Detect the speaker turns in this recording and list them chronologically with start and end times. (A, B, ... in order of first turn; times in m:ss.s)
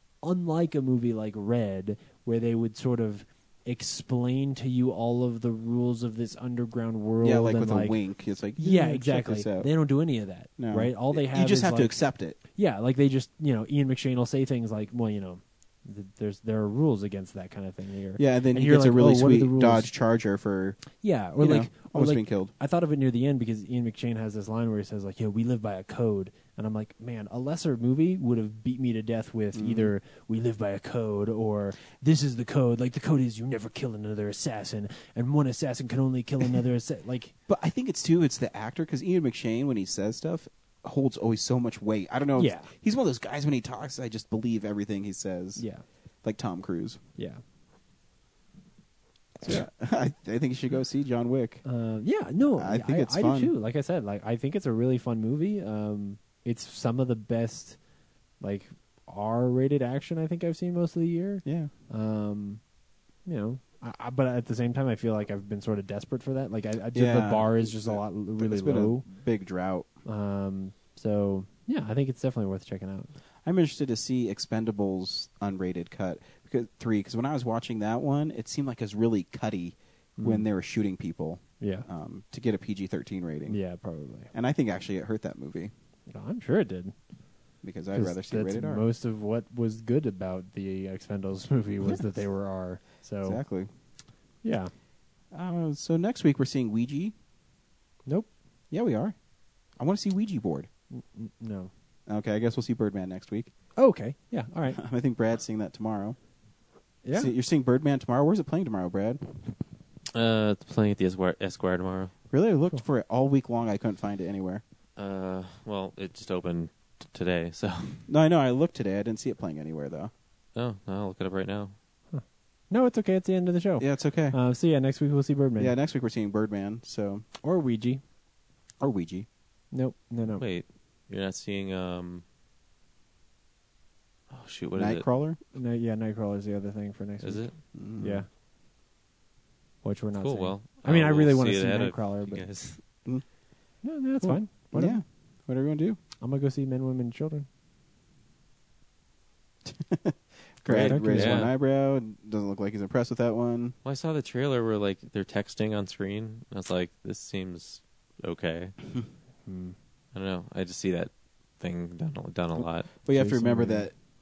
0:00.2-0:08.0 A
0:07.2-0:09.7 B
0:08.6-0:12.0 A
0:10.6-0:12.4 B
0:12.5-0:19.9 A
0:18.2-0:20.8 B
0:21.0-0:37.3 A
0:21.4-0:22.5 B
0:29.5-0:29.9 B
0:37.5-0:45.6 B
0:42.4-0:42.7 A
0:45.6-0:45.8 A
0:46.2-0:47.0 B
0:49.4-0:51.6 B
0:51.6-0:57.8 A
0:52.6-0:53.5 B
0:58.4-1:02.6 A
1:01.4-1:01.7 B
1:03.2-1:09.1 A
1:06.9-1:09.9 B
1:10.0-1:13.1 A
1:13.4-1:23.6 B
1:20.2-1:20.4 A
1:21.6-1:21.9 A
1:23.5-1:24.3 A
1:24.3-1:25.7 B
1:26.1-1:26.9 A
1:27.6-1:28.8 B
1:27.9-1:33.4 A
1:33.2-1:33.7 B
1:34.4-1:34.7 A
1:35.3-1:37.1 B
1:38.7-1:39.1 B
1:39.8-1:40.7 B
1:40.9-1:41.7 A
1:42.1-1:43.5 B
1:43.8-1:44.8 A
1:44.7-1:46.2 B
1:47.0-1:47.3 A
1:47.1-1:49.2 B
1:50.1-1:52.1 C
1:52.3-1:54.6 B
1:55.0-1:58.0 C
1:58.1-2:00.1 B
2:00.5-2:01.7 C
2:02.1-2:05.7 A
2:03.8-2:04.4 B
2:05.6-2:07.2 B
2:07.4-2:08.0 A
2:08.8-2:09.3 B
2:09.7-2:10.4 A
2:10.4-2:12.2 C
2:14.3-2:15.0 C
2:14.7-2:15.4 B
2:15.5-2:17.4 A
2:17.2-2:17.5 C
2:17.7-2:18.2 B
2:18.0-2:18.3 A
2:19.8-2:22.4 A
2:20.2-2:22.8 C
2:23.8-2:25.0 A
2:24.2-2:26.0 B
2:26.2-2:27.5 A
2:29.6-2:33.8 B
2:30.7-2:31.5 C
2:30.7-2:31.5 A
2:33.8-2:38.7 C
2:39.4-2:39.7 A
2:40.1-2:42.9 C
2:43.0-2:43.9 B
2:43.1-2:43.9 A